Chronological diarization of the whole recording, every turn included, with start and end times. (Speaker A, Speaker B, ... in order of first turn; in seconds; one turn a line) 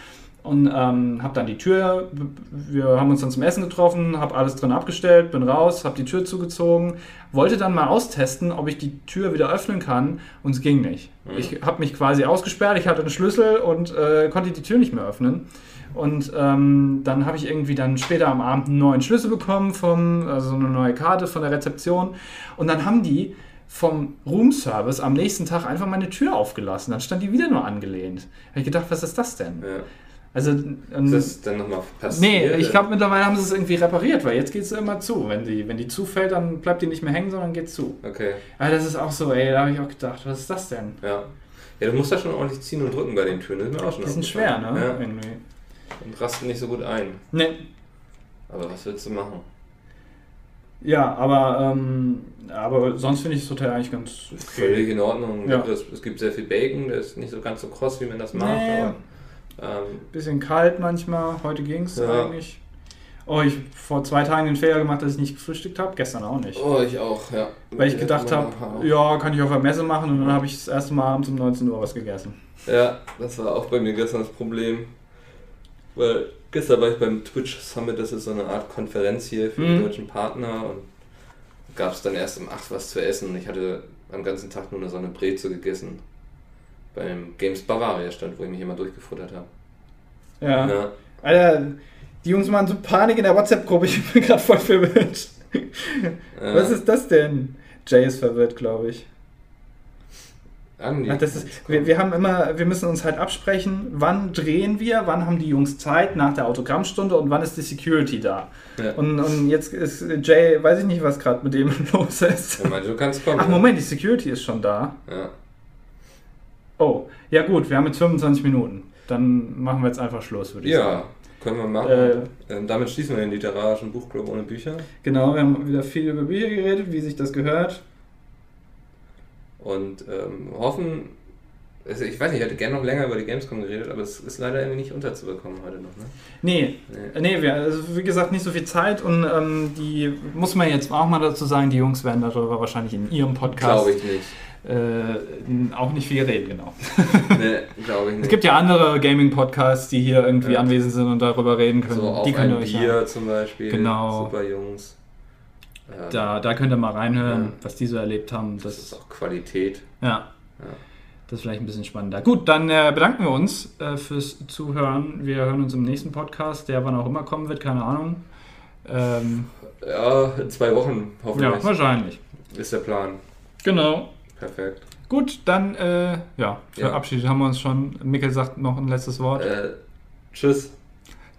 Speaker A: 0.4-29.7
Speaker B: 11.2-11.5
Speaker A: 30.3-31.3
Speaker B: 31.1-32.8
Speaker A: 32.1-38.0
Speaker B: 38.0-38.4
Speaker A: 38.6-41.0
Speaker B: 41.0-41.3
Speaker B: 41.8-45.0
Speaker A: 44.0-45.4
Speaker B: 46.0-47.2
Speaker A: 47.3-47.6
Speaker B: 48.5-49.4
Speaker A: 50.8-54.9
Speaker B: 54.4-58.9
Speaker A: 58.3-59.0
Speaker B: 59.6-60.1
Speaker A: 60.1-62.6
Speaker B: 62.0-62.3
Speaker A: 63.2-66.6
Speaker B: 66.5-68.9
Speaker A: 67.8-72.3
Speaker B: 70.2-70.4
Speaker B: 72.6-74.9
Speaker B: 75.9-80.8
Speaker A: 79.6-79.9
Speaker B: 81.7-86.0
Speaker B: 86.9-89.5
Speaker A: 90.4-99.1
Speaker B: 90.6-90.9
Speaker B: 96.3-96.8
Speaker B: 100.8-101.9
Speaker A: 101.1-112.7
Speaker B: 112.6-113.6
Speaker A: 113.3-114.9
Speaker B: 115.1-115.3
Speaker A: 116.8-121.0
Speaker B: 120.6-124.8
Speaker A: 121.8-122.3
Speaker A: 125.0-127.8
Speaker B: 129.6-131.1
Speaker B: 131.8-136.1
Speaker A: 136.4-143.9
Speaker B: 143.5-144.3
Speaker A: 144.6-147.4
Speaker B: 147.3-148.4
Speaker A: 148.2-153.0
Speaker B: 150.4-150.7
Speaker B: 151.9-154.9
Speaker A: 153.7-154.3
Speaker B: 155.9-156.3
Speaker A: 156.1-158.9
Speaker B: 157.2-157.5
Speaker B: 158.6-159.8
Speaker A: 160.0-160.2
Speaker A: 161.3-168.2
Speaker A: 168.8-169.5
Speaker B: 169.8-171.7
Speaker A: 171.3-172.2
Speaker B: 172.5-173.2
Speaker A: 173.6-174.1
Speaker B: 174.4-174.8
Speaker A: 175.1-179.4
Speaker B: 179.3-179.7
Speaker B: 180.3-180.7